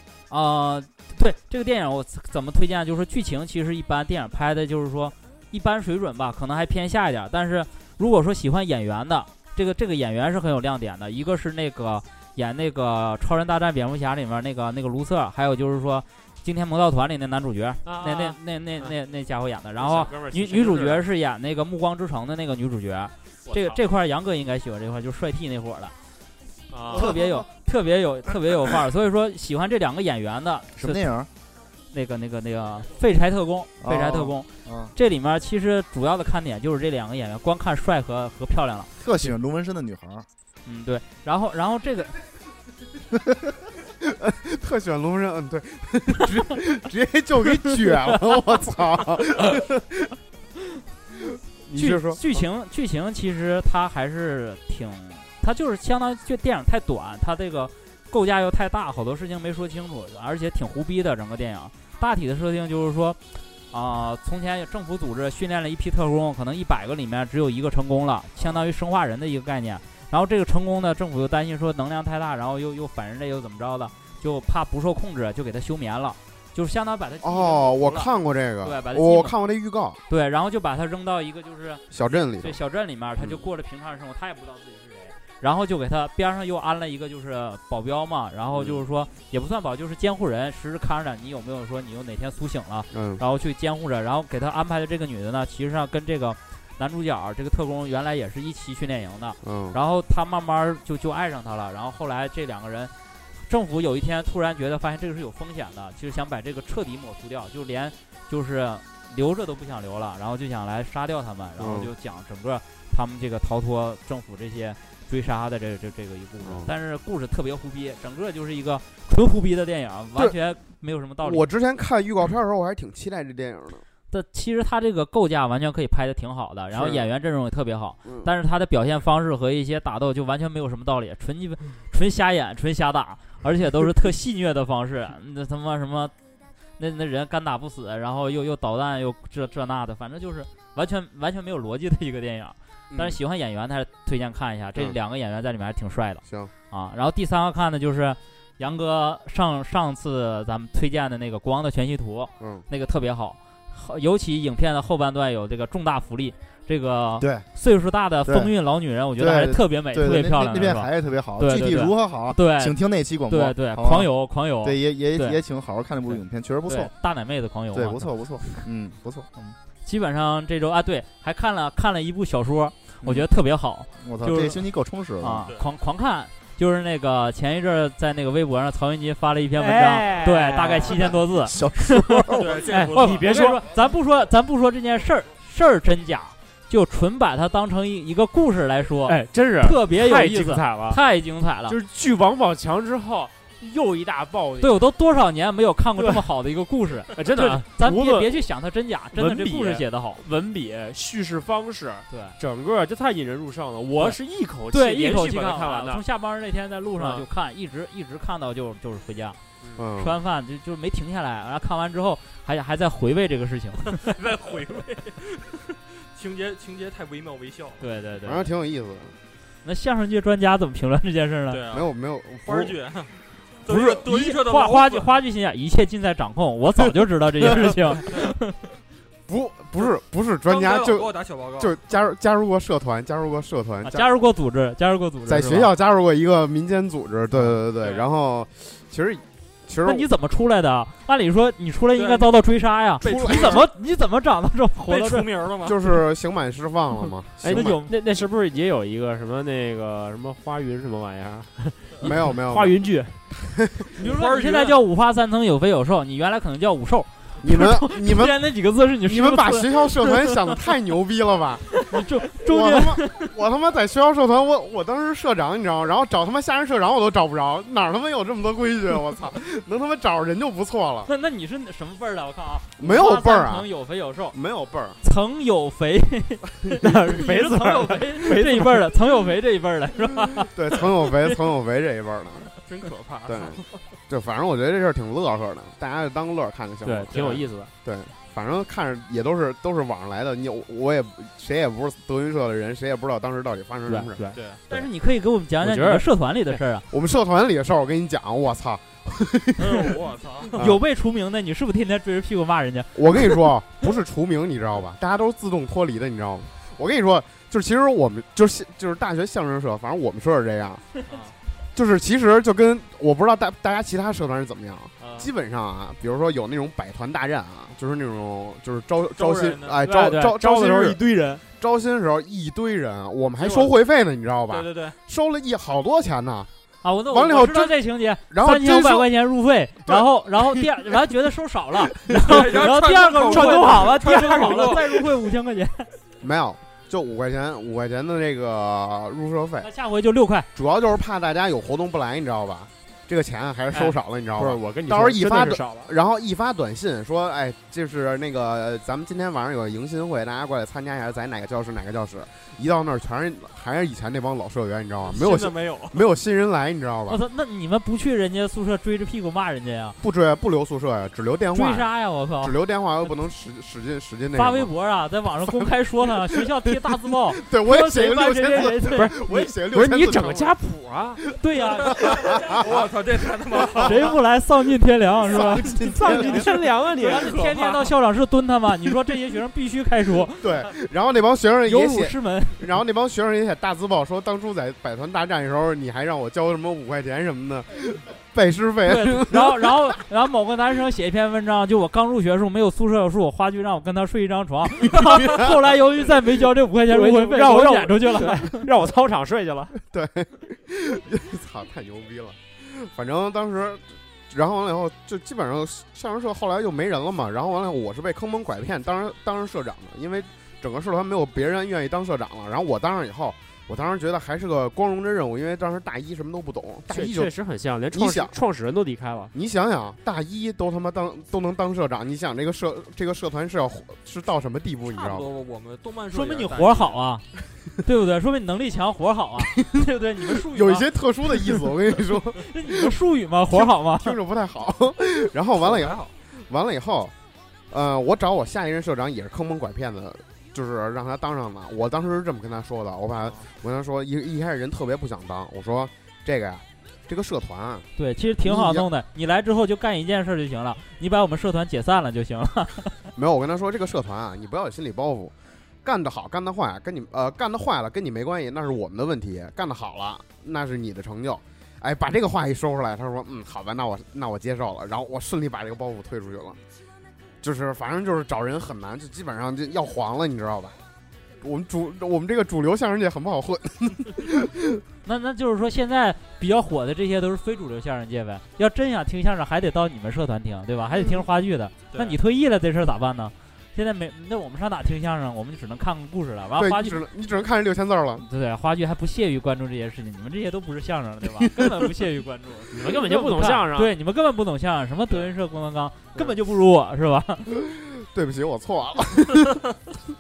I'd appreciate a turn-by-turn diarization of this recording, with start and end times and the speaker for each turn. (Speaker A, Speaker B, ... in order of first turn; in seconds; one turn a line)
Speaker A: 0.3-25.9
Speaker B: 17.9-18.9
Speaker B: 19.8-21.1
Speaker B: 23.5-23.8
Speaker B: 26.7-27.2
Speaker A: 26.9-31.1
Speaker C: 30.8-31.3
Speaker A: 31.9-39.3
Speaker C: 33.8-34.9
Speaker C: 39.0-40.3
Speaker A: 40.7-42.1
Speaker D: 44.0-50.1
Speaker D: 51.4-52.5
Speaker A: 51.8-63.2
Speaker A: 63.7-78.1
Speaker D: 77.2-80.0
Speaker A: 78.6-79.3
Speaker A: 80.1-102.9
Speaker D: 81.9-82.6
Speaker D: 83.2-83.4
Speaker D: 88.5-88.8
Speaker D: 92.9-93.2
Speaker D: 99.4-99.8
Speaker A: 103.5-121.5
Speaker D: 111.6-111.9
Speaker D: 116.4-116.7
Speaker D: 121.2-123.8
Speaker A: 124.1-136.1
Speaker D: 126.7-127.1
Speaker D: 128.1-128.3
Speaker A: 136.8-165.4
Speaker D: 142.9-143.2
Speaker D: 146.2-146.5
Speaker D: 152.4-152.7
Speaker C: 157.2-157.5
Speaker C: 158.2-158.5
Speaker C: 159.2-166.9
Speaker A: 166.1-168.6
Speaker C: 167.7-169.3
Speaker A: 169.4-174.6
Speaker C: 174.0-175.5
Speaker A: 175.2-191.8
Speaker B: 179.6-181.1
Speaker C: 181.5-182.6
Speaker E: 182.3-183.4
Speaker B: 182.7-183.6
Speaker B: 189.1-191.0
Speaker B: 191.7-194.8
Speaker A: 194.6-200.2
Speaker B: 196.0-196.2
Speaker B: 197.2-198.4
Speaker B: 199.1-206.0
Speaker A: 202.1-202.4
Speaker A: 204.7-209.4
Speaker D: 209.8-210.2
Speaker A: 210.0-214.0
Speaker E: 213.9-217.9
Speaker A: 217.8-218.5
Speaker D: 218.3-219.2
Speaker A: 219.6-221.6
Speaker E: 221.5-221.9
Speaker D: 221.7-222.8
Speaker E: 222.4-225.1
Speaker D: 223.7-224.0
Speaker A: 224.0-228.6
Speaker E: 227.7-228.1
Speaker D: 229.3-234.1
Speaker E: 230.5-231.8
Speaker A: 233.8-235.7
Speaker D: 235.3-240.1
Speaker E: 237.8-238.1
Speaker A: 239.8-245.3
Speaker E: 241.9-242.3
Speaker E: 243.0-243.7
Speaker D: 243.0-243.6
Speaker E: 244.8-245.9
Speaker D: 245.6-247.8
Speaker B: 247.4-253.2
Speaker A: 247.5-247.9
Speaker D: 252.0-252.8
Speaker D: 253.3-253.9
Speaker E: 254.0-254.8
Speaker A: 254.0-260.6
Speaker D: 257.4-258.5
Speaker D: 259.0-271.1
Speaker A: 261.7-263.3
Speaker A: 271.1-274.4
Speaker D: 272.8-273.7
Speaker D: 274.3-275.0
Speaker A: 275.0-276.5
Speaker B: 276.8-278.9
Speaker A: 277.1-281.4
Speaker D: 280.5-282.5
Speaker E: 282.6-283.9
Speaker D: 283.3-294.2
Speaker B: 286.8-287.7
Speaker B: 293.9-294.9
Speaker E: 294.3-294.6
Speaker A: 294.7-296.9
Speaker B: 295.6-296.1
Speaker D: 296.9-300.0
Speaker E: 299.6-300.6
Speaker D: 300.5-300.8
Speaker A: 300.6-303.4
Speaker D: 302.9-311.0
Speaker E: 311.0-311.4
Speaker D: 311.8-321.0
Speaker E: 315.0-315.3
Speaker E: 319.2-319.8
Speaker B: 319.9-321.4
Speaker D: 321.6-326.5
Speaker E: 323.4-323.8
Speaker E: 324.5-325.0
Speaker A: 326.8-335.9
Speaker D: 327.1-329.1
Speaker D: 329.9-330.7
Speaker D: 332.1-332.4
Speaker E: 332.2-335.1
Speaker D: 336.2-339.7
Speaker A: 339.6-340.5
Speaker D: 340.6-357.2
Speaker B: 343.7-345.9
Speaker E: 355.1-356.1
Speaker A: 357.1-360.0
Speaker D: 360.0-364.7
Speaker A: 361.5-362.5
Speaker A: 364.3-369.2
Speaker D: 365.4-370.5
Speaker B: 368.9-371.2
Speaker A: 371.4-372.0
Speaker D: 371.8-374.0
Speaker E: 372.0-374.2
Speaker A: 373.8-376.5
Speaker D: 375.2-376.6
Speaker B: 376.0-377.3
Speaker E: 377.0-377.9
Speaker A: 377.0-380.5
Speaker D: 380.4-389.9
Speaker A: 381.7-382.7
Speaker A: 388.9-398.6
Speaker B: 396.9-399.8
Speaker D: 399.9-417.3
Speaker B: 416.9-419.3
Speaker D: 417.9-418.4
Speaker D: 419.3-425.3
Speaker E: 424.9-427.0
Speaker A: 426.1-427.2
Speaker A: 427.8-431.7
Speaker D: 429.6-433.0
Speaker A: 432.4-434.2
Speaker D: 433.5-437.1
Speaker E: 435.6-436.1
Speaker D: 437.7-447.9
Speaker A: 448.0-453.0
Speaker D: 448.4-448.9
Speaker D: 453.2-466.6
Speaker D: 467.4-470.8
Speaker D: 471.4-474.8
Speaker A: 475.1-487.0
Speaker E: 481.9-482.2
Speaker D: 486.6-488.2
Speaker A: 488.2-497.5
Speaker D: 491.4-491.8
Speaker B: 492.7-493.9
Speaker D: 497.5-499.6